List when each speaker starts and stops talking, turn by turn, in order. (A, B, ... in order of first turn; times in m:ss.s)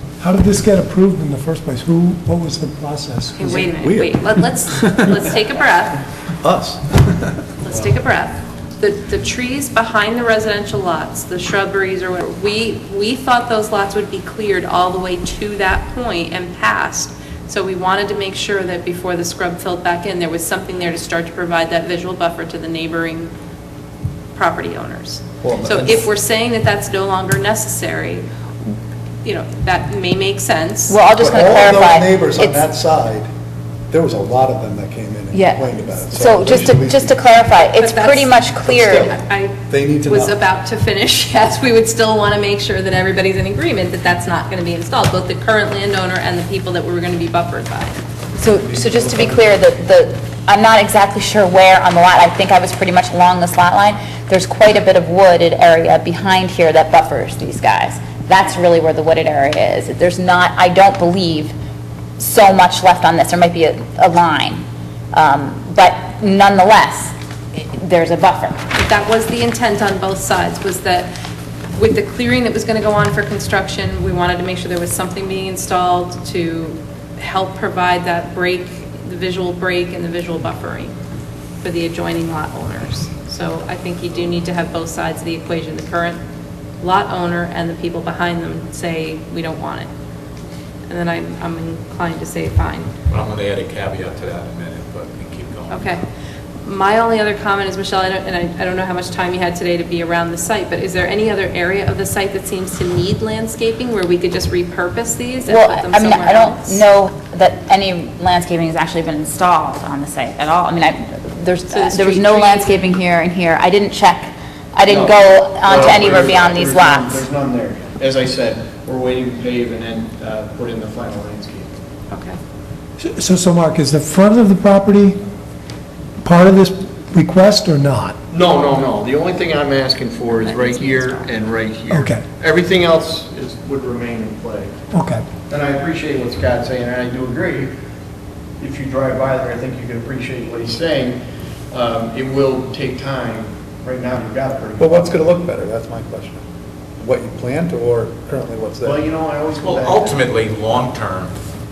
0:00.2-0:03.5 A
0:03.4-0:06.0 B
0:03.5-0:05.2 C
0:06.4-0:07.4 C
0:07.6-0:23.3 B
0:24.3-0:28.2 B
0:25.4-0:26.0 C
0:29.2-0:31.0 B
0:30.9-0:32.7 D
0:31.2-0:33.3 C
0:33.9-0:37.1 C
0:35.3-0:39.1 D
0:37.6-0:48.0 B
0:38.8-0:39.2 C
0:39.7-0:40.4 C
0:48.4-1:01.5 D
0:48.8-0:49.4 C
1:02.2-1:08.6 D
1:08.7-1:11.1 B
1:11.7-1:20.9 B
1:21.6-1:26.2 B
1:26.8-1:29.9 B
1:30.9-1:32.9 B
1:33.1-1:36.0 E
1:35.7-1:36.0 B
1:36.6-1:46.8 B
1:45.4-1:57.2 D
1:51.7-1:52.8 B
1:54.8-2:01.7 F
2:02.1-2:02.4 B
2:03.0-2:05.2 A
2:06.2-2:08.2 A
2:08.3-2:14.8 F
2:10.2-2:11.3 B
2:11.9-2:12.3 A
2:14.9-2:15.2 A
2:15.5-2:17.7 F
2:18.6-2:21.2 F
2:21.7-2:25.2 F
2:24.8-2:26.4 C
2:27.0-2:29.0 C
2:28.8-2:30.2 F
2:29.6-2:31.3 E